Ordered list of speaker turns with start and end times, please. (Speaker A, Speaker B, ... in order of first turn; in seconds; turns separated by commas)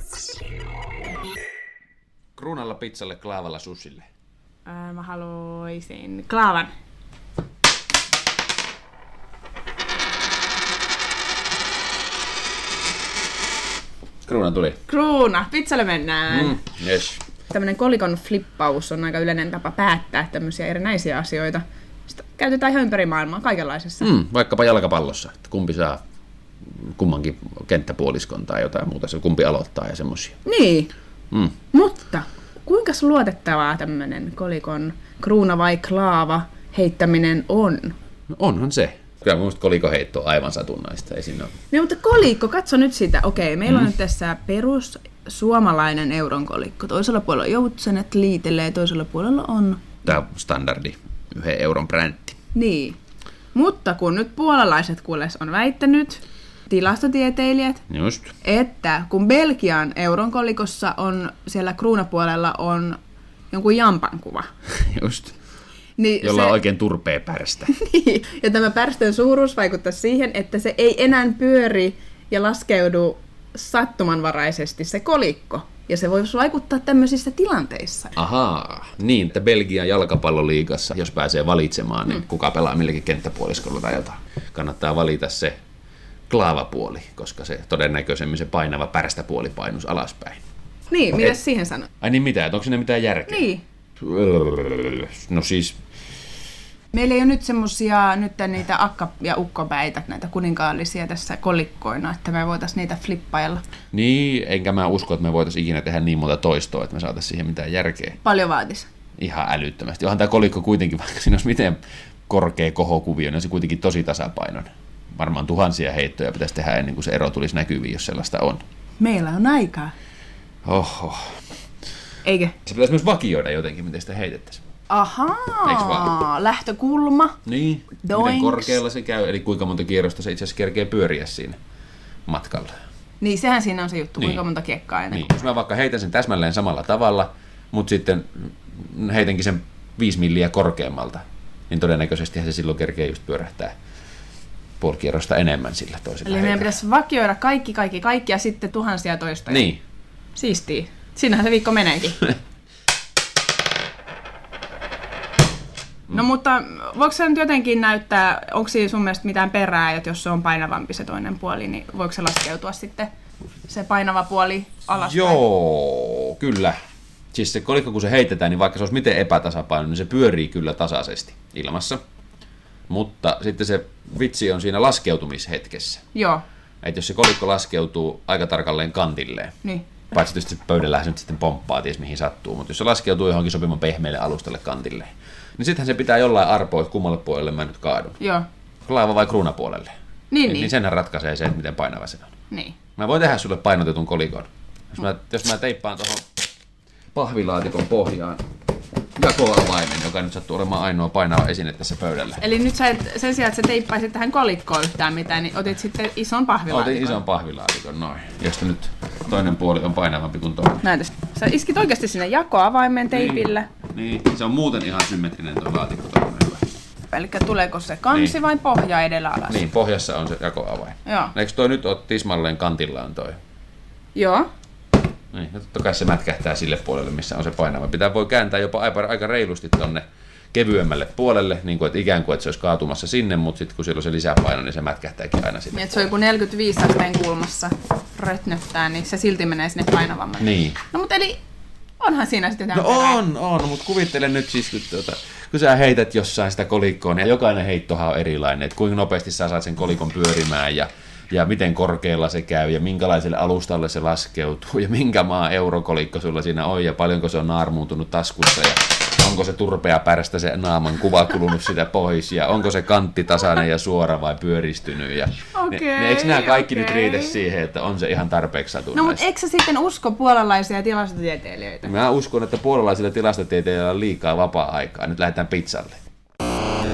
Speaker A: 2.4-4.0, Speaker B: 4.6-6.7, Speaker A: 14.3-14.8, Speaker B: 14.9-16.6, Speaker A: 16.3-17.2, Speaker B: 17.5-24.1, Speaker A: 24.0-26.0, Speaker A: 26.7-30.4, Speaker B: 30.4-30.9, Speaker B: 31.7-38.0, Speaker A: 38.3-41.5, Speaker B: 41.7-50.0, Speaker A: 50.0-52.4, Speaker B: 52.5-53.0, Speaker B: 53.5-57.8, Speaker A: 57.9-58.3, Speaker B: 58.4-63.0, Speaker B: 63.5-64.5, Speaker A: 64.7-65.4, Speaker B: 66.0-66.6, Speaker A: 66.2-67.7, Speaker B: 67.7-78.2, Speaker A: 78.2-85.6, Speaker A: 86.3-90.4, Speaker B: 90.9-91.9, Speaker A: 92.0-93.5, Speaker B: 93.3-93.6, Speaker A: 94.0-95.8, Speaker B: 96.9-103.6, Speaker A: 103.9-108.2, Speaker B: 108.2-108.9, Speaker A: 109.2-118.6, Speaker B: 119.0-119.9, Speaker A: 120.7-121.3, Speaker B: 122.2-122.5, Speaker A: 122.6-124.6, Speaker B: 124.9-127.4, Speaker A: 125.6-126.2, Speaker A: 127.5-131.6, Speaker B: 128.0-128.8, Speaker A: 132.3-132.7, Speaker B: 133.2-135.3, Speaker A: 135.1-143.7, Speaker A: 144.8-146.8, Speaker B: 146.2-149.7, Speaker A: 149.5-149.8, Speaker B: 150.3-152.3, Speaker B: 156.1-163.1, Speaker B: 163.7-165.4, Speaker A: 164.9-166.8, Speaker A: 167.3-172.0, Speaker A: 172.9-176.1, Speaker B: 176.1-176.4, Speaker A: 176.8-179.6, Speaker A: 180.1-188.2, Speaker B: 188.2-188.5, Speaker A: 188.8-189.9, Speaker B: 190.3-190.7, Speaker A: 190.4-192.3, Speaker B: 192.5-192.8, Speaker A: 193.0-196.2, Speaker A: 197.1-198.4, Speaker A: 199.2-202.4, Speaker B: 202.4-207.2, Speaker A: 206.7-210.8, Speaker B: 210.8-213.7, Speaker A: 213.1-216.7, Speaker B: 217.1-219.6, Speaker A: 218.1-218.4, Speaker A: 219.5-223.4, Speaker B: 221.1-221.3, Speaker B: 224.1-224.5, Speaker A: 225.3-236.1, Speaker B: 235.7-241.4, Speaker A: 240.4-240.8, Speaker B: 242.0-243.2, Speaker A: 242.7-269.2, Speaker B: 265.5-267.4, Speaker B: 268.9-271.9, Speaker A: 271.8-276.0